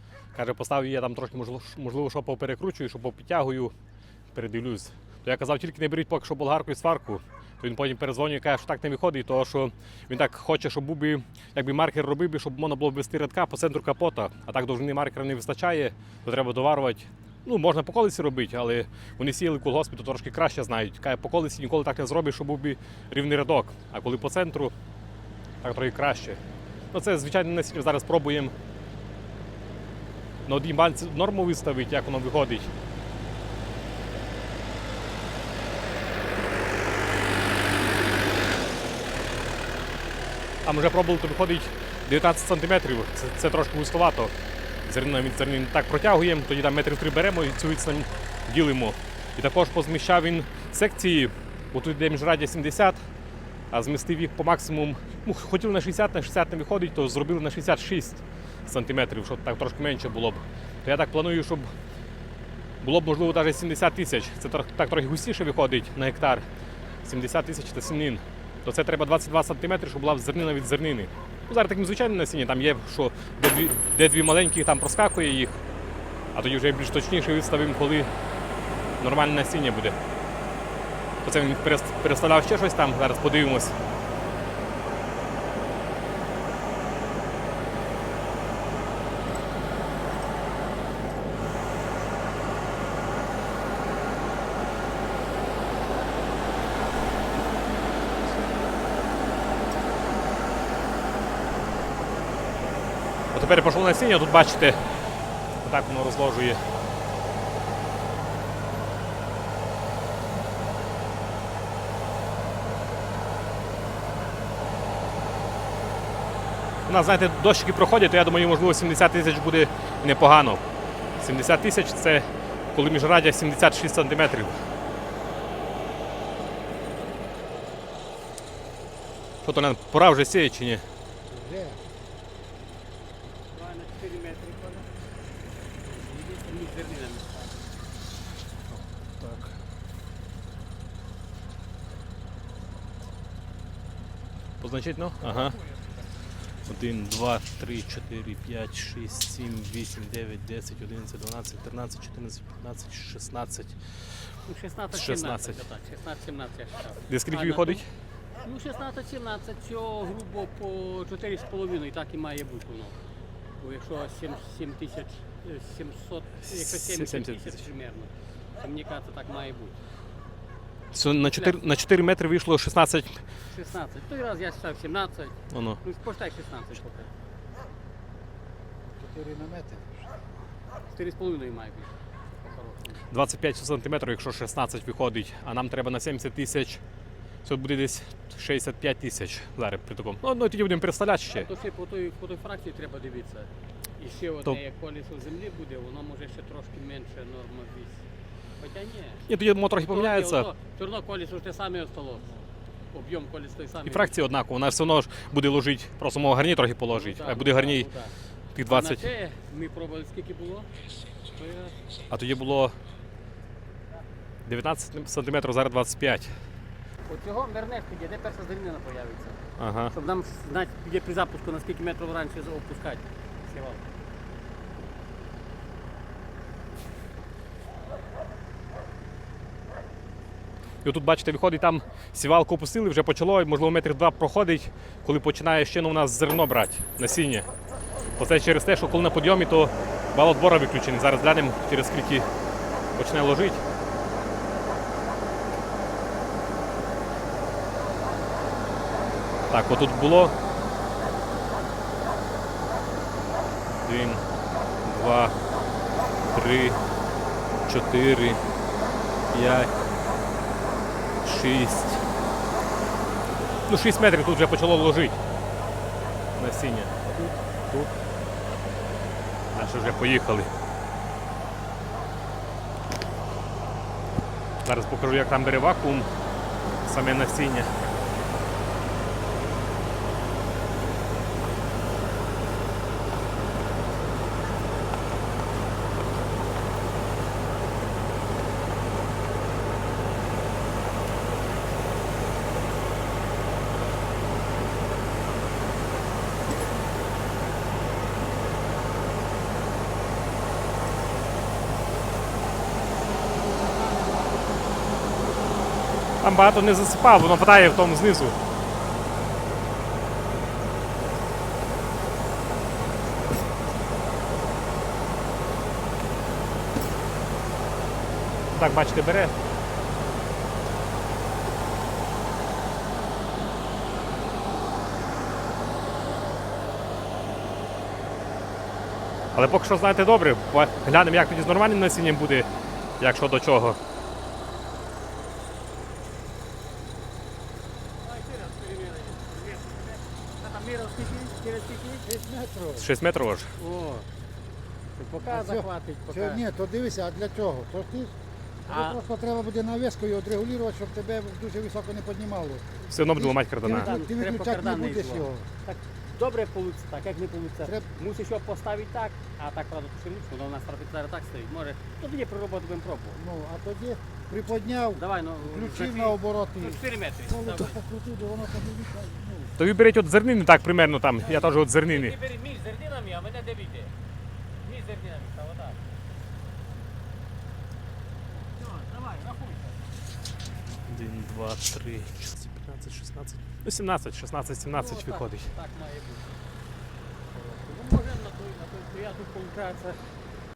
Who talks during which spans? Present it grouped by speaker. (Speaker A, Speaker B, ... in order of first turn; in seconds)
Speaker A: 0.3-3.7, 4.3-24.7, 25.6-26.4, 26.9-28.5, 30.4-32.7, 40.6-44.3, 44.9-53.0, 53.7-61.7, 62.8-66.5, 67.0-75.6, 76.3-78.1, 79.0-80.0, 81.2-83.8, 103.3-104.8, 105.6-106.6, 116.8-120.6, 121.2-124.6, 129.4-130.8, 138.7-139.6, 144.6-145.6, 146.7-154.2, 154.9-155.6, 157.1-157.9, 166.4-167.7, 170.9-173.2, 175.5-175.8, 183.1-186.8, 187.4-191.5, 199.3-200.5, 203.8-207.9, 208.5-209.1, 212.1-212.8, 214.4-216.3, 219.6-219.9, 230.8-237.5, 238.2-242.3, 242.9-243.6, 249.5-250.3, 253.8-254.2, 254.8-255.3, 256.3-256.8, 257.6-258.4, 259.3-259.8, 261.2-262.1, 263.7-265.2, 266.4-268.0, 269.5-270.5, 274.6-276.1, 276.8-277.8, 306.2-308.4, 318.5-319.3, 329.3-332.5, 333.0-333.8, 342.8-343.5, 352.9-353.9, 369.6-372.2, 380.9-385.6
Speaker B: 131.3-131.9, 178.8-180.2, 342.0-342.9, 345.2-355.5, 357.6-357.9, 363.1-369.6
Speaker C: 133.5-134.9, 135.8-137.6, 154.4-157.8, 158.4-163.0, 163.6-169.7, 171.2-171.6, 173.5-177.1, 180.9-183.0, 191.3-198.0, 198.6-199.2, 199.8-202.4, 202.9-204.2, 206.9-210.7, 211.3-211.8, 217.1-223.9, 338.0-342.0, 343.6-344.1, 344.9-346.4, 348.6-349.0, 353.6-363.2, 364.9-367.8, 371.2-373.9, 374.6-375.8, 378.5-379.8, 384.7-386.4, 387.3-390.0